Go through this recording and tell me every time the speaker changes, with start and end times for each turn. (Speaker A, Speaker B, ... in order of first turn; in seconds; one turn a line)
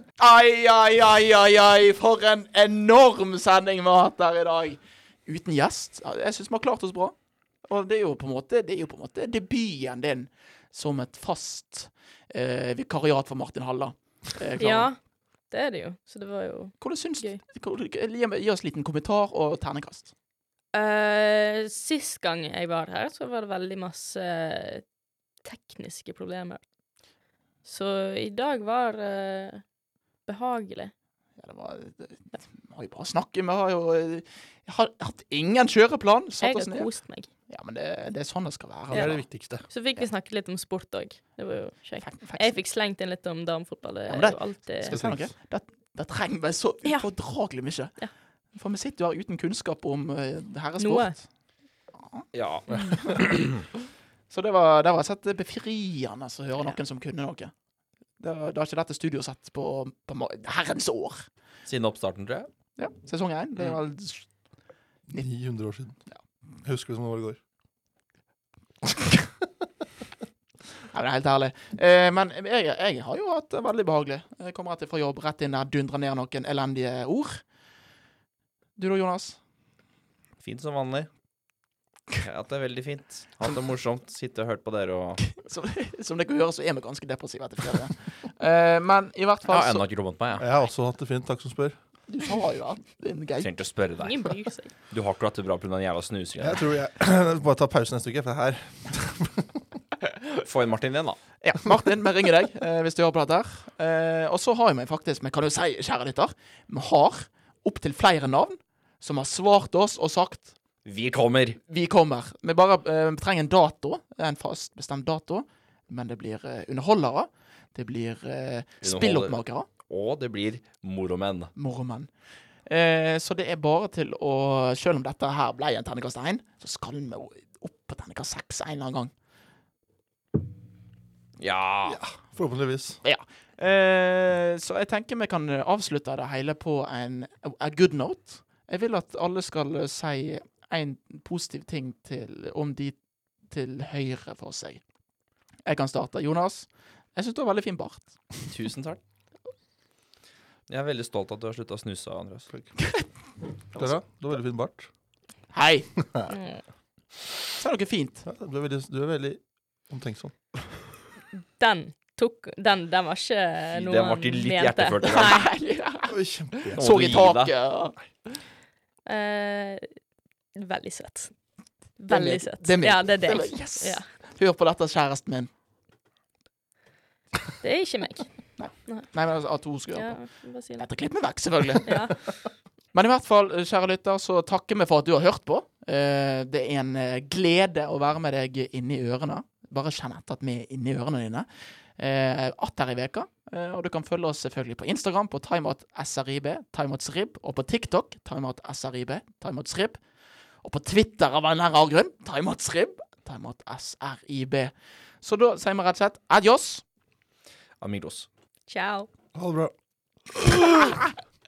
Speaker A: 0.2-14.9
Speaker B: 14.6-15.0
Speaker B: 15.5-17.4
Speaker A: 16.8-20.1
Speaker B: 20.7-24.8
Speaker B: 25.4-26.6
Speaker B: 27.6-29.6
Speaker B: 30.2-30.9
Speaker A: 31.4-36.9
Speaker B: 36.4-37.3
Speaker A: 37.5-39.2
Speaker C: 38.9-39.6
Speaker B: 38.9-45.0
Speaker A: 42.0-42.5
Speaker A: 44.1-48.0
Speaker C: 44.8-45.3
Speaker A: 48.5-51.2
Speaker B: 50.8-51.1
Speaker D: 52.3-53.6
Speaker A: 52.8-53.2
Speaker A: 54.3-57.5
Speaker A: 58.2-61.2
Speaker D: 61.6-62.5
Speaker A: 62.8-64.3
Speaker C: 65.1-66.0
Speaker C: 66.6-67.4
Speaker A: 70.9-77.4
Speaker A: 78.8-79.4
Speaker D: 80.4-81.1
Speaker D: 82.2-85.3
Speaker A: 85.3-89.8
Speaker D: 89.5-90.4
Speaker C: 90.4-91.8
Speaker A: 92.1-93.5
Speaker D: 93.4-94.3
Speaker B: 94.0-94.7
Speaker D: 94.9-96.6
Speaker C: 96.4-99.6
Speaker D: 100.4-101.2
Speaker A: 101.4-110.5
Speaker D: 110.8-111.6
Speaker A: 111.7-119.7
Speaker D: 118.8-119.3
Speaker D: 119.9-121.5
Speaker A: 121.5-122.1
Speaker A: 122.7-129.1
Speaker D: 131.4-132.0
Speaker C: 131.8-133.0
Speaker A: 133.0-143.0
Speaker A: 143.5-144.8
Speaker A: 145.7-148.1
Speaker D: 148.5-149.0
Speaker D: 150.7-152.5
Speaker C: 153.7-154.9
Speaker A: 155.5-155.9
Speaker B: 156.3-156.6
Speaker A: 157.6-158.2
Speaker C: 158.2-160.6
Speaker B: 161.6-165.5
Speaker D: 163.7-165.4
Speaker A: 165.1-168.0
Speaker C: 166.1-166.8
Speaker D: 166.7-167.5
Speaker B: 169.1-169.9
Speaker B: 170.5-171.3
Speaker B: 172.0-174.0
Speaker A: 172.1-175.5
Speaker B: 177.6-178.3
Speaker A: 178.6-180.2
Speaker B: 179.9-180.8
Speaker A: 180.8-182.1
Speaker B: 181.8-182.2
Speaker A: 182.9-191.5
Speaker A: 192.0-200.0
Speaker A: 200.6-206.8
Speaker D: 207.8-208.3
Speaker B: 208.7-209.1
Speaker C: 209.3-209.7
Speaker A: 210.7-211.0